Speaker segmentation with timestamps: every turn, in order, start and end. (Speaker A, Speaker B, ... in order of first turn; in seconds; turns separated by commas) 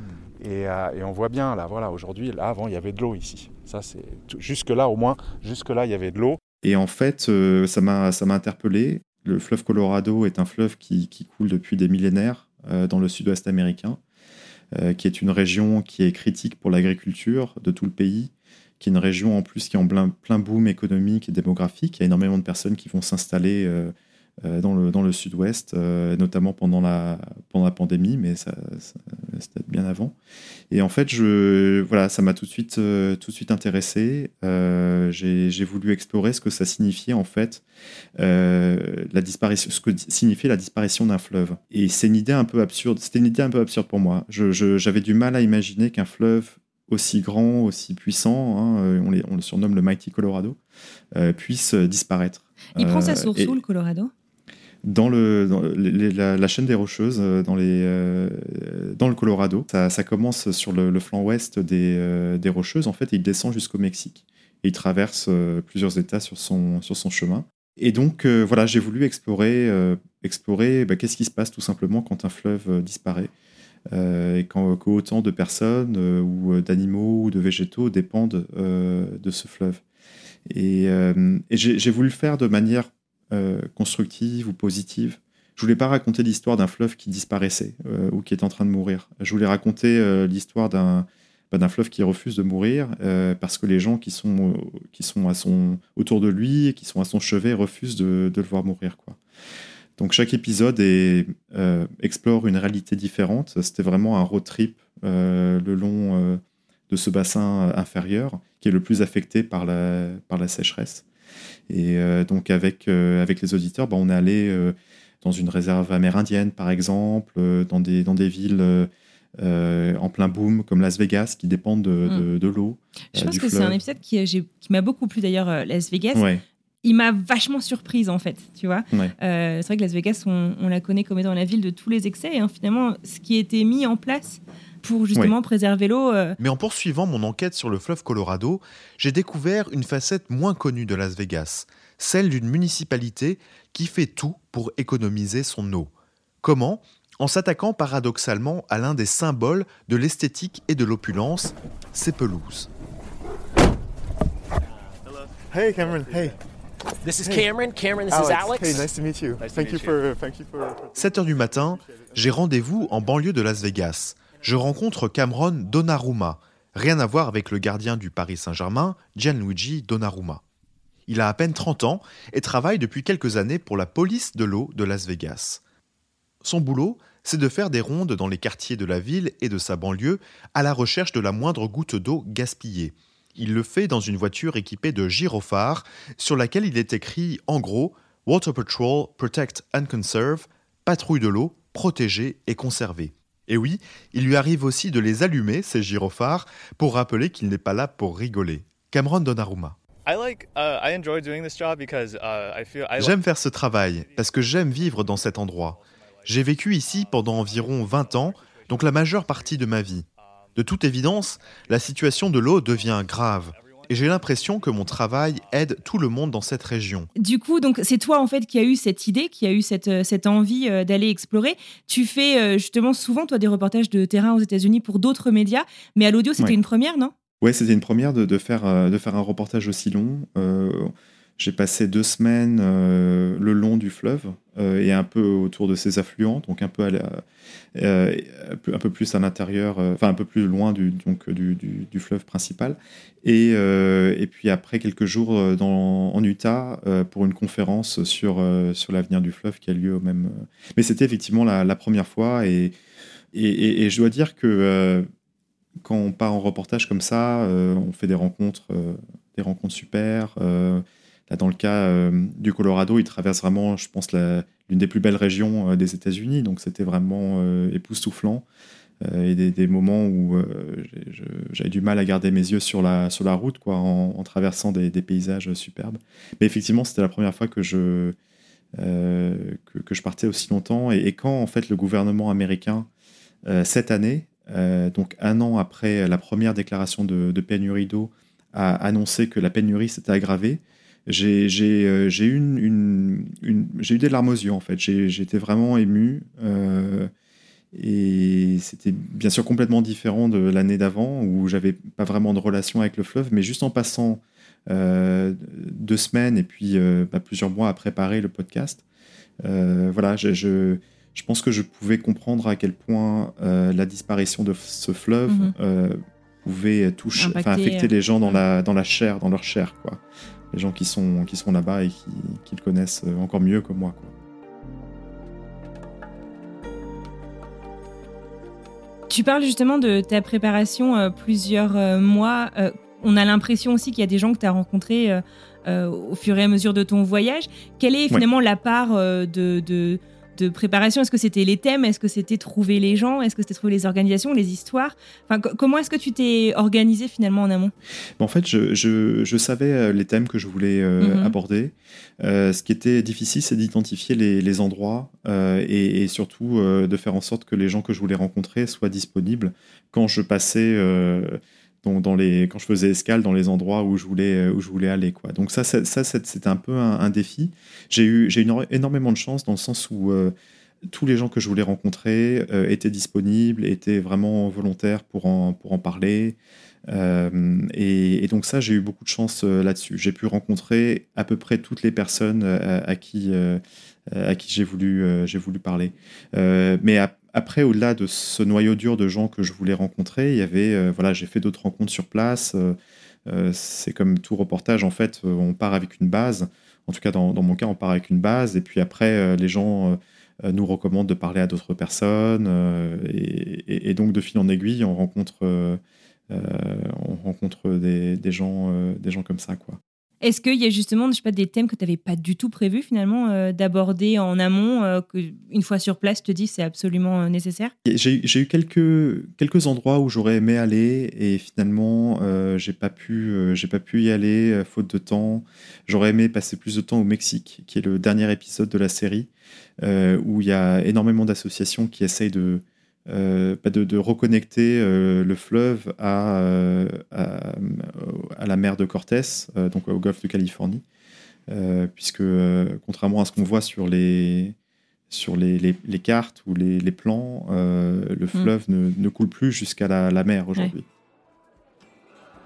Speaker A: 0.4-6.4, Speaker B: 6.6-14.0, Speaker B: 14.7-30.1, Speaker B: 30.7-37.6, Speaker B: 38.2-50.6, Speaker B: 51.1-53.6, Speaker C: 52.8-54.1, Speaker B: 54.8-73.3, Speaker B: 73.9-79.8, Speaker B: 80.5-99.2, Speaker B: 100.0-111.0, Speaker B: 111.7-123.8, Speaker C: 123.1-126.2, Speaker B: 126.1-126.4, Speaker C: 126.8-136.4, Speaker D: 136.4-145.9, Speaker D: 146.4-152.7, Speaker E: 155.1-156.3, Speaker F: 155.5-156.4, Speaker F: 157.1-157.5, Speaker E: 157.2-158.9, Speaker F: 158.1-162.1, Speaker E: 159.4-160.1, Speaker D: 161.0-170.4, Speaker B: 161.2-161.6, Speaker B: 162.4-164.6, Speaker E: 162.7-163.1, Speaker B: 165.5-166.3, Speaker B: 166.9-170.1, Speaker D: 171.1-175.6, Speaker B: 171.2-171.9, Speaker B: 172.5-175.5, Speaker D: 176.4-182.9, Speaker B: 177.2-177.6, Speaker B: 179.5-180.0, Speaker B: 180.6-181.0, Speaker B: 182.2-184.9, Speaker D: 183.7-190.4, Speaker B: 186.2-199.8, Speaker D: 191.1-193.1, Speaker D: 194.4-195.1, Speaker E: 200.1-203.2, Speaker B: 203.0-210.1, Speaker E: 203.9-209.5, Speaker E: 210.2-210.6, Speaker B: 210.6-217.1, Speaker E: 211.4-215.9, Speaker C: 217.2-227.1, Speaker B: 227.4-237.2, Speaker B: 237.8-252.7, Speaker B: 253.3-255.1, Speaker B: 255.8-268.4, Speaker B: 269.0-278.2, Speaker B: 278.8-282.9, Speaker B: 283.4-297.1, Speaker B: 297.7-308.8, Speaker B: 309.4-320.0, Speaker C: 315.3-315.5, Speaker C: 317.2-318.4, Speaker B: 320.5-324.1, Speaker C: 329.1-347.7, Speaker B: 348.2-370.3, Speaker C: 351.0-351.4, Speaker B: 370.9-376.4, Speaker B: 376.9-409.8, Speaker C: 410.2-417.7, Speaker B: 417.9-429.3, Speaker B: 429.8-440.8, Speaker B: 441.5-444.6, Speaker B: 445.1-450.9